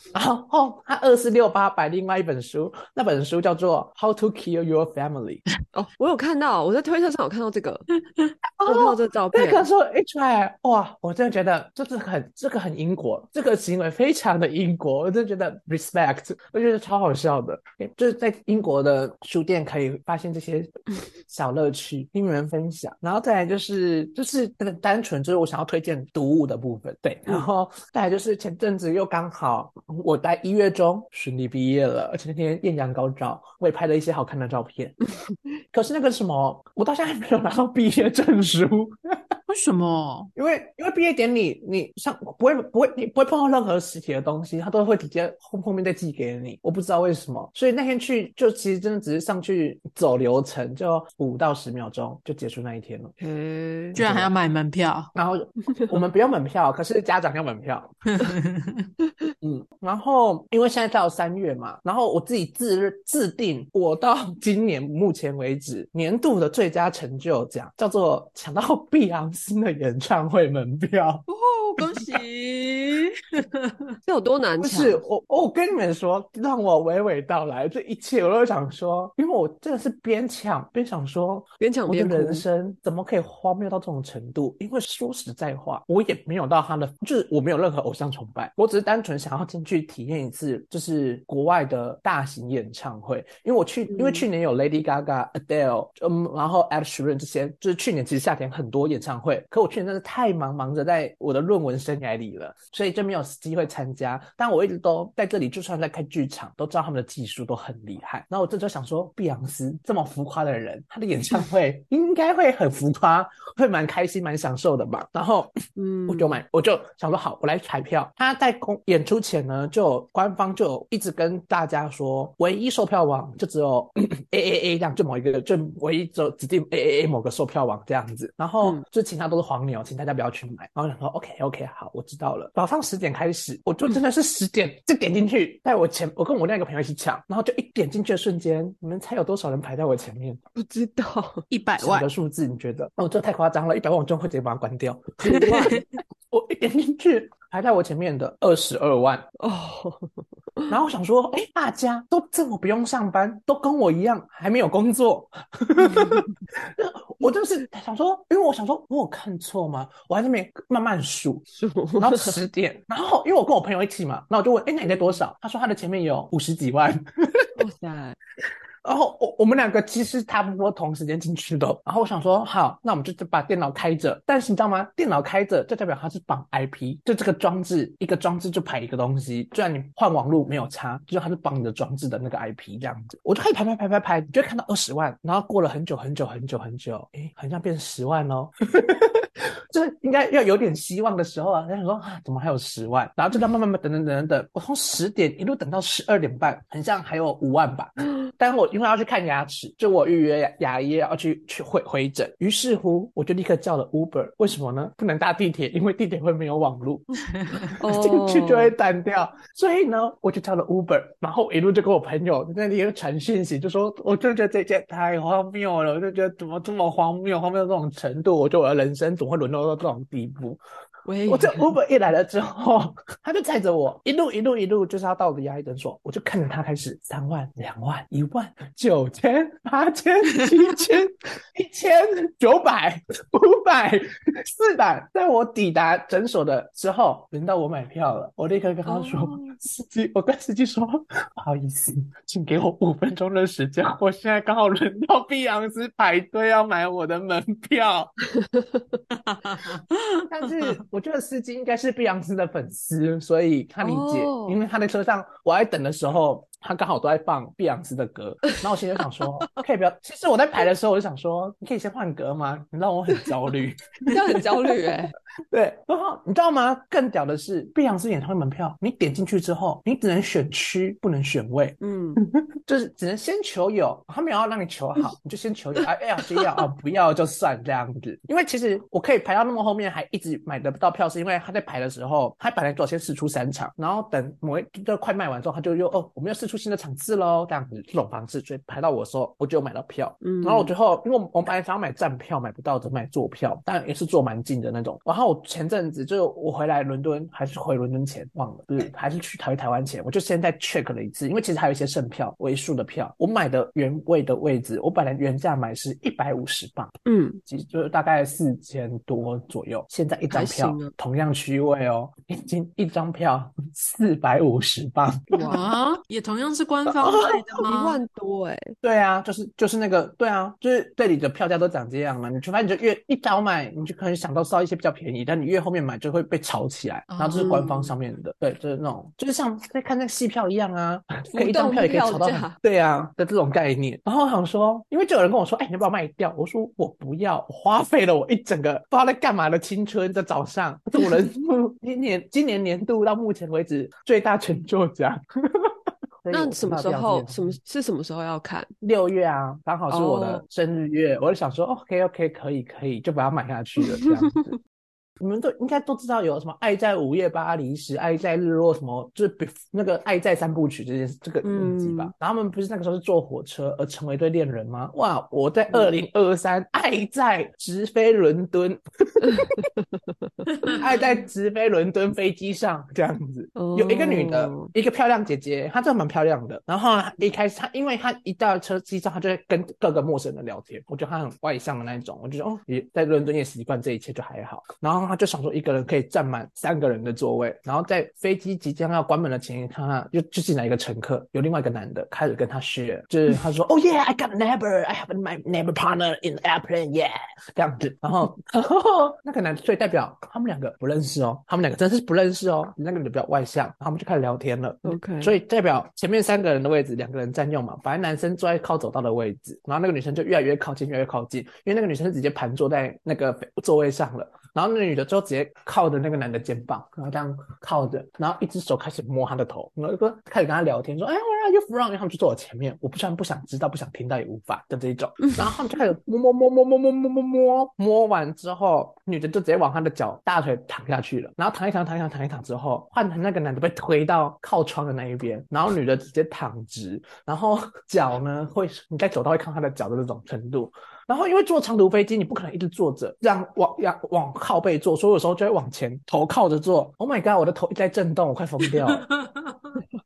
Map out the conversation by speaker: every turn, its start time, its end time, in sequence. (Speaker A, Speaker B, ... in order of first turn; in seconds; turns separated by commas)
Speaker A: 0.1-5.4, Speaker B: 5.7-7.8, Speaker A: 8.6-35.0, Speaker B: 8.6-9.6, Speaker A: 35.7-39.3, Speaker C: 39.5-40.3, Speaker A: 40.3-53.1, Speaker B: 53.2-54.0, Speaker C: 53.9-55.1, Speaker A: 54.0-54.3, Speaker A: 55.1-58.0, Speaker C: 58.2-58.9, Speaker A: 59.4-71.2, Speaker B: 71.3-72.2, Speaker C: 71.8-74.0, Speaker B: 74.0-75.0, Speaker A: 74.6-115.5, Speaker B: 81.6-82.4, Speaker B: 93.9-94.2, Speaker B: 115.8-116.4, Speaker A: 116.1-140.4, Speaker B: 140.6-141.4, Speaker C: 141.5-142.1, Speaker A: 141.8-149.2, Speaker B: 145.3-145.8, Speaker C: 145.4-145.7, Speaker B: 149.4-150.7, Speaker A: 150.7-161.4, Speaker B: 155.8-156.3, Speaker B: 161.6-162.3, Speaker A: 162.0-167.5, Speaker B: 167.6-168.2, Speaker A: 168.8-207.1, Speaker A: 207.7-220.6, Speaker B: 207.7-208.7, Speaker B: 221.1-221.7, Speaker A: 221.3-248.1, Speaker B: 238.8-239.5, Speaker B: 248.3-248.8, Speaker C: 249.3-249.8, Speaker A: 250.2-264.8, Speaker B: 253.8-254.6, Speaker B: 264.1-265.1, Speaker A: 265.5-306.9, Speaker B: 271.8-272.2, Speaker B: 290.2-290.7, Speaker B: 307.1-307.4, Speaker A: 307.4-315.5, Speaker B: 310.3-310.9, Speaker B: 315.3-315.6, Speaker C: 315.5-318.0, Speaker A: 316.9-317.6, Speaker B: 317.3-318.7, Speaker A: 318.8-347.6, Speaker C: 327.1-327.8, Speaker B: 327.3-327.9, Speaker B: 331.3-332.6, Speaker B: 346.3-348.7, Speaker A: 348.8-354.6, Speaker B: 349.9-350.4, Speaker B: 353.8-354.4, Speaker A: 355.2-369.7, Speaker B: 361.4-362.1, Speaker B: 369.2-370.8, Speaker A: 370.7-449.1, Speaker B: 373.6-374.7, Speaker B: 404.8-405.3, Speaker C: 449.0-449.8